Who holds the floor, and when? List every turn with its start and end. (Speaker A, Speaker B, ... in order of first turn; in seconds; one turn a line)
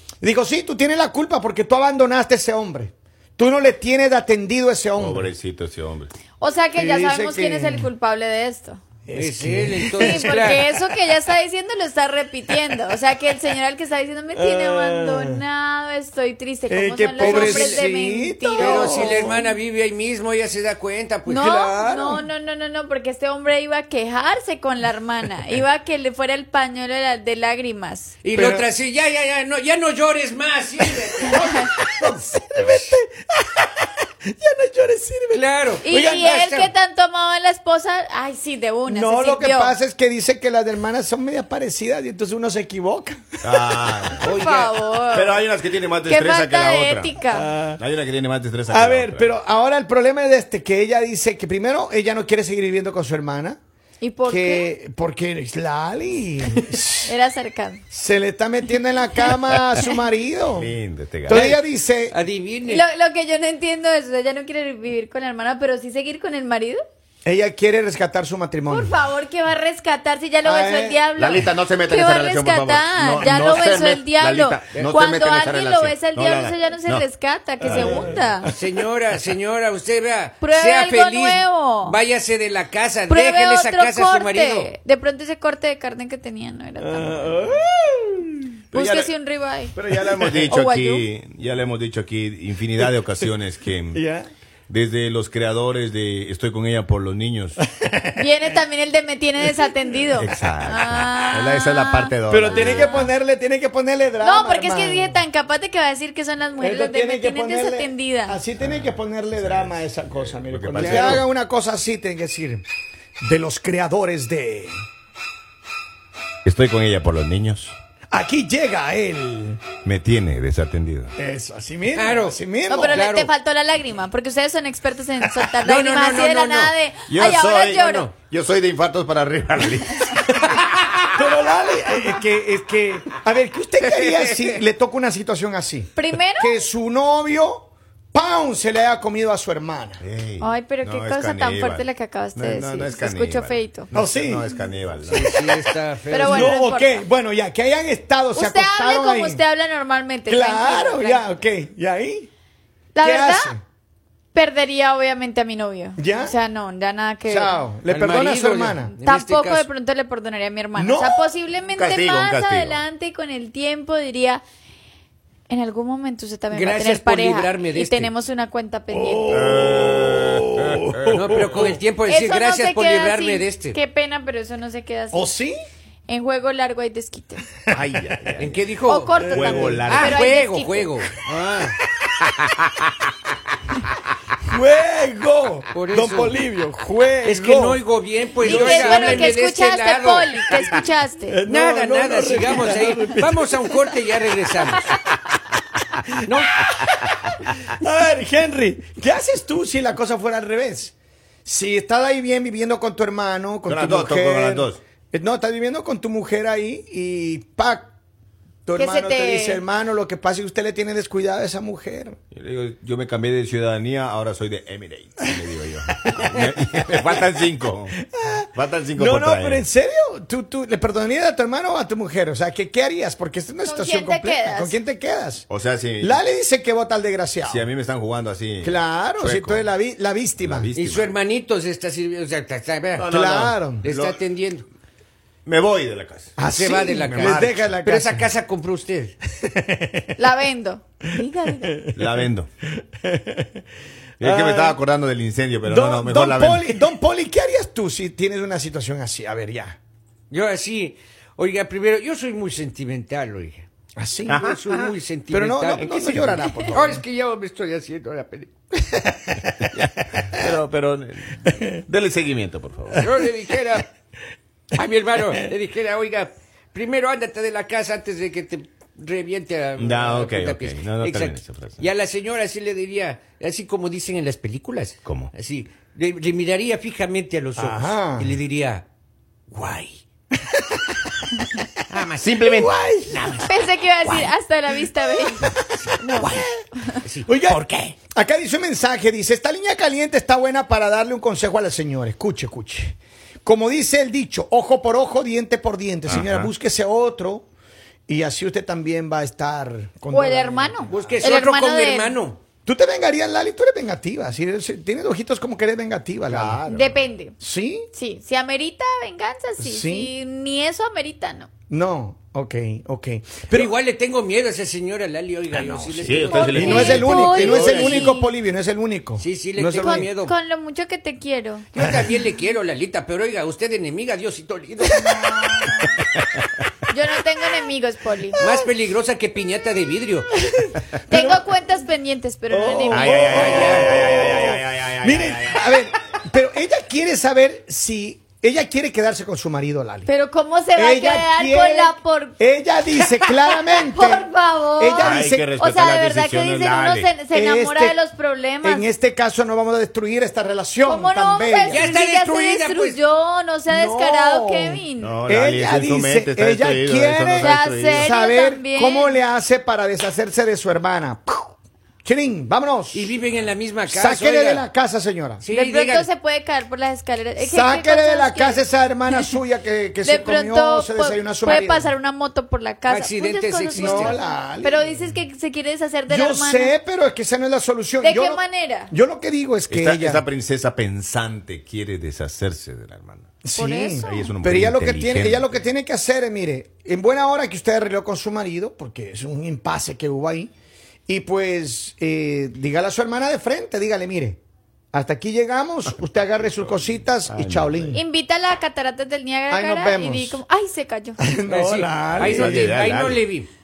Speaker A: 0.2-5.3
Speaker B: 5.0-6.1
Speaker C: 6.4-8.8
Speaker A: 6.8-7.9
Speaker A: 9.1-10.9
Speaker D: 9.1-10.6
Speaker C: 10.0-19.4
Speaker A: 14.3-15.4
Speaker A: 16.7-19.4
Speaker D: 17.2-17.8
Speaker D: 18.6-21.6
Speaker C: 21.2-28.1
Speaker A: 21.4-22.2
Speaker D: 28.2-31.5
Speaker A: 28.3-28.7
Speaker A: 30.9-36.7
Speaker C: 31.3-31.7
Speaker D: 35.3-35.8
Speaker C: 35.8-39.7
Speaker A: 38.9-44.0
Speaker B: 43.4-47.1
Speaker D: 44.2-44.7
Speaker C: 44.2-45.4
Speaker C: 46.0-47.5
Speaker A: 47.3-47.8
Speaker B: 47.8-49.3
Speaker A: 48.7-53.6
Speaker C: 54.0-54.7
Speaker A: 54.2-57.1
Speaker C: 57.0-57.8
Speaker A: 57.9-60.7
Speaker B: 60.5-61.6
Speaker A: 61.3-62.1
Speaker D: 61.3-62.8
Speaker C: 62.6-66.8
Speaker A: 67.2-69.0
Speaker C: 68.7-78.5
Speaker A: 70.4-71.1
Speaker B: 71.2-77.0
Speaker A: 77.6-78.5
Speaker B: 77.7-78.1
Speaker D: 78.5-84.7
Speaker C: 80.4-82.0
Speaker C: 83.1-87.5
Speaker A: 86.8-88.5
Speaker C: 88.7-89.8
Speaker B: 88.7-89.1
Speaker B: 89.7-94.0
Speaker C: 90.4-91.1
Speaker A: 93.9-94.3
Speaker B: 94.7-97.6
Speaker A: 97.7-98.3
Speaker C: 98.2-103.1
Speaker B: 100.2-103.0
Speaker A: 102.3-105.2
Speaker C: 104.2-108.4
Speaker A: 106.6-112.6
Speaker B: 108.6-111.3
Speaker D: 110.8-111.2
Speaker A: 113.2-114.8
Speaker B: 116.4-117.7
Speaker A: 118.1-119.6
Speaker B: 119.8-121.1
Speaker A: 121.2-123.0
Speaker D: 121.9-122.4
Speaker C: 122.7-128.1
Speaker D: 122.9-123.3
Speaker D: 125.4-126.7
Speaker B: 127.1-130.5
Speaker D: 127.7-128.1
Speaker A: 131.1-140.0
Speaker C: 135.9-136.6
Speaker B: 140.0-145.4
Speaker C: 140.4-143.9
Speaker A: 143.9-144.5
Speaker D: 145.0-146.5
Speaker A: 145.2-145.6
Speaker C: 146.1-147.0
Speaker A: 146.2-149.4
Speaker C: 148.3-151.3
Speaker A: 150.2-152.3
Speaker C: 152.9-153.6
Speaker A: 153.0-153.6
Speaker C: 154.3-157.6
Speaker A: 156.0-156.3
Speaker A: 157.2-158.9
Speaker D: 157.9-159.7
Speaker C: 159.0-164.4
Speaker A: 160.8-161.3
Speaker B: 161.7-162.8
Speaker C: 165.5-169.4
Speaker D: 166.5-168.1
Speaker A: 168.9-171.7
Speaker B: 169.3-171.6
Speaker D: 171.1-173.8
Speaker C: 172.0-175.3
Speaker A: 175.1-175.6
Speaker C: 176.1-177.4
Speaker B: 177.7-178.6
Speaker D: 178.4-179.2
Speaker C: 178.8-181.0
Speaker B: 179.2-180.3
Speaker A: 179.2-179.8
Speaker D: 179.8-181.8
Speaker A: 184.4-187.8
Speaker D: 185.7-186.4
Speaker D: 187.2-190.4
Speaker C: 188.4-191.4
Speaker A: 188.4-189.3
Speaker A: 191.3-193.9
Speaker D: 191.5-195.0
Speaker D: 196.2-196.6
Speaker A: 196.6-197.1
Speaker A: 197.7-200.9
Speaker A: 201.4-207.9
Speaker B: 203.7-204.8
Speaker A: 208.7-212.2
Speaker C: 208.8-209.6
Speaker B: 212.3-217.9
Speaker A: 216.8-217.4
Speaker A: 218.0-225.5
Speaker B: 218.5-219.6
Speaker C: 223.6-224.8
Speaker B: 225.5-226.2
Speaker A: 226.0-227.7
Speaker B: 227.4-229.7
Speaker A: 228.6-230.7
Speaker B: 230.4-231.1
Speaker D: 230.7-233.1
Speaker B: 232.9-234.2
Speaker A: 233.1-233.8
Speaker D: 233.8-234.6
Speaker B: 235.4-236.3
Speaker A: 236.4-238.3
Speaker D: 236.5-239.1
Speaker B: 237.1-237.7
Speaker A: 239.4-240.1
Speaker C: 240.2-241.9
Speaker B: 241.9-242.5
Speaker A: 243.0-243.6
Speaker B: 244.2-246.8
Speaker A: 244.2-244.8
Speaker A: 245.7-249.8
Speaker D: 250.3-253.6
Speaker A: 253.9-254.5
Speaker B: 254.3-254.9
Speaker D: 254.3-258.5
Speaker A: 255.3-257.0
Speaker A: 258.8-260.3
Speaker B: 259.6-263.1
Speaker D: 262.9-263.9
Speaker D: 264.7-278.8
Speaker B: 269.8-271.8
Speaker B: 275.0-275.3
Speaker A: 277.6-278.4
Speaker D: 279.6-279.9
Speaker A: 280.4-281.1
Speaker D: 281.9-284.3
Speaker B: 282.2-282.7
Speaker A: 282.4-283.4
Speaker C: 283.4-285.5
Speaker A: 285.2-286.6
Speaker D: 285.4-287.9
Speaker A: 287.2-297.4
Speaker B: 296.1-296.5
Speaker A: 298.1-301.2
Speaker C: 300.1-302.2
Speaker D: 300.9-302.4
Speaker A: 302.6-306.6
Speaker B: 306.2-307.0
Speaker C: 306.7-307.3
Speaker A: 307.4-307.9
Speaker C: 307.9-311.5
Speaker A: 309.6-310.1
Speaker A: 311.7-313.7
Speaker D: 313.5-318.1
Speaker A: 315.5-320.1
Speaker B: 316.0-317.7
Speaker C: 316.3-318.3
Speaker D: 319.2-320.3
Speaker C: 319.8-321.7
Speaker D: 321.7-325.0
Speaker A: 324.9-325.9
Speaker C: 324.9-325.9
Speaker C: 326.9-328.4
Speaker A: 328.3-328.6
Speaker D: 328.4-330.3
Speaker A: 330.4-331.4
Speaker C: 331.1-333.8
Speaker A: 332.5-340.1
Speaker B: 332.9-335.8
Speaker D: 333.2-334.1
Speaker C: 340.1-342.4
Speaker A: 340.7-345.4
Speaker C: 343.1-348.9
Speaker B: 345.0-347.1
Speaker A: 347.3-348.0
Speaker A: 348.6-351.9
Speaker C: 350.8-355.1
Speaker D: 351.7-353.0
Speaker A: 353.7-363.1
Speaker B: 355.0-358.1
Speaker C: 357.4-359.2
Speaker D: 362.9-364.7
Speaker A: 363.9-365.4
Speaker D: 365.4-366.1
Speaker C: 365.5-369.3
Speaker A: 367.4-371.9
Speaker C: 370.0-376.7
Speaker D: 372.9-374.2
Speaker A: 373.7-375.0
Speaker A: 376.1-380.2
Speaker C: 378.0-378.9
Speaker B: 379.7-383.3
Speaker A: 383.4-390.5
Speaker C: 383.5-384.3
Speaker B: 384.0-385.5
Speaker A: 391.1-394.4
Speaker A: 394.9-398.0
Speaker B: 397.3-398.0
Speaker C: 397.9-401.2
Speaker A: 399.5-400.4
Speaker A: 401.2-402.6
Speaker D: 401.5-403.5
Speaker B: 402.2-403.2